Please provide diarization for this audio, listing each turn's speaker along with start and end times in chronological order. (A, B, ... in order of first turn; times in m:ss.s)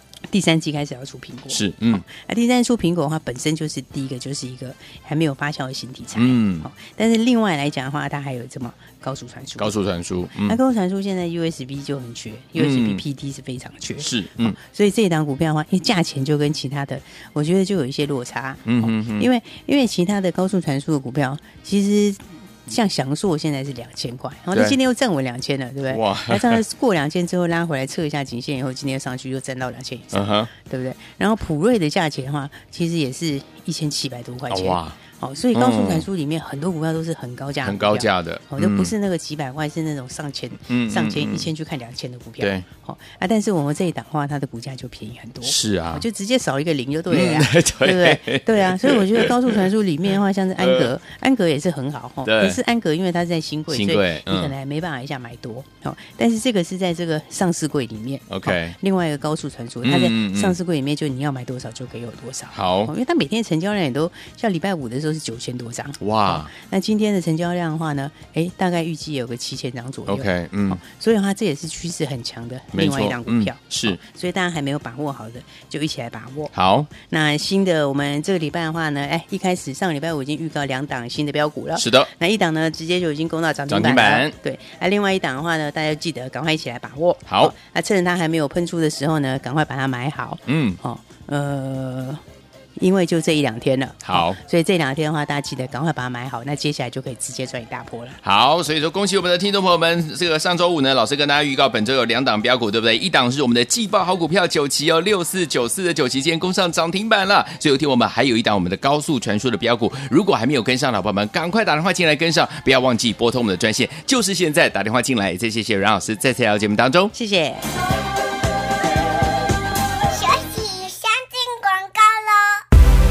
0:00.3-0:09.8 A
0:01.5-0:02.0 B
0:06.2-0:06.7 B
0:09.6-0:10.6 B
0:10.4-1:32.2 A
0:12.6-0:13.0 B
0:14.0-0:14.6 B
0:18.6-0:19.3 B
0:25.9-0:26.6 B
0:30.1-0:30.5 B
0:34.5-0:35.0 B
0:35.5-0:36.0 B
0:37.6-0:38.9 B
0:40.7-0:41.5 B
0:42.4-0:42.6 B
0:45.4-0:46.0 B
0:47.1-0:49.6 B
0:50.6-0:50.9 B
0:52.2-0:52.6 B
0:53.7-0:54.5 B
0:58.3-0:58.8 B
0:59.8-1:00.6 B
1:02.5-1:02.9 B
1:06.0-1:06.5 B
1:10.1-1:10.8 B
1:12.7-1:14.0 B
1:16.5-1:16.9 B
1:21.8-1:22.1 B
1:23.7-1:24.3 B
1:27.3-1:27.5 B
1:30.5-1:30.8 B
1:32.8-1:38.2 A
1:34.0-1:34.4 B
1:38.2-1:57.1 B
1:57.1-1:57.6 A
2:00.1-2:02.6 C